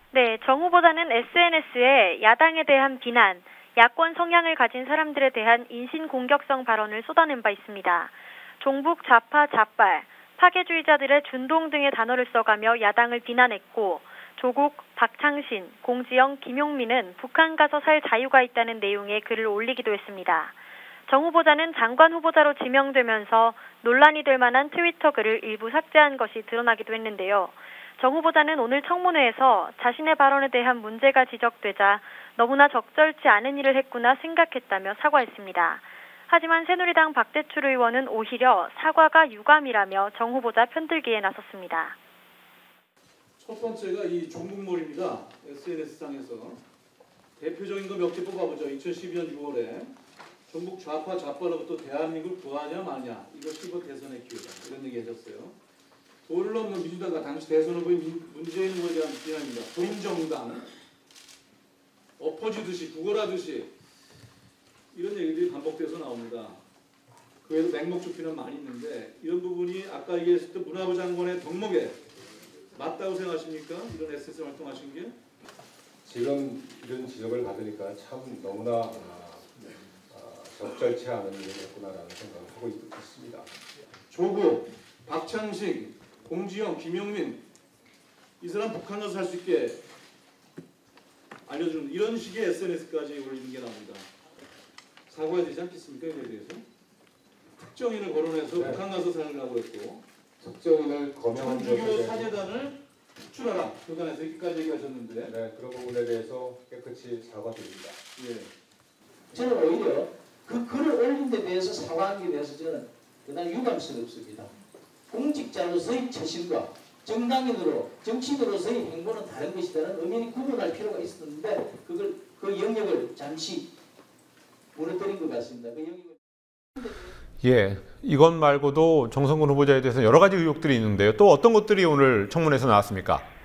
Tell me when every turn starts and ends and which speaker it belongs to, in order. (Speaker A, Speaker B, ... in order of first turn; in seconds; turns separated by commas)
Speaker A: 0.1-20.5, Speaker A: 21.1-42.0, Speaker B: 43.4-46.6, Speaker B: 47.4-49.9, Speaker B: 50.5-55.6, Speaker B: 56.3-60.7, Speaker B: 62.2-63.7, Speaker B: 64.9-66.6, Speaker B: 67.4-72.0, Speaker B: 72.8-75.2, Speaker C: 76.0-79.5, Speaker C: 80.1-83.5, Speaker B: 84.1-87.4, Speaker B: 88.4-89.8, Speaker B: 91.5-94.1, Speaker B: 95.1-96.6, Speaker B: 97.6-100.0, Speaker C: 98.5-98.8, Speaker C: 100.4-102.4, Speaker B: 101.3-102.8, Speaker B: 103.3-105.3, Speaker C: 105.2-108.0, Speaker B: 108.2-108.5, Speaker D: 109.3-114.5, Speaker D: 115.1-123.7, Speaker D: 124.7-126.2, Speaker E: 127.4-133.3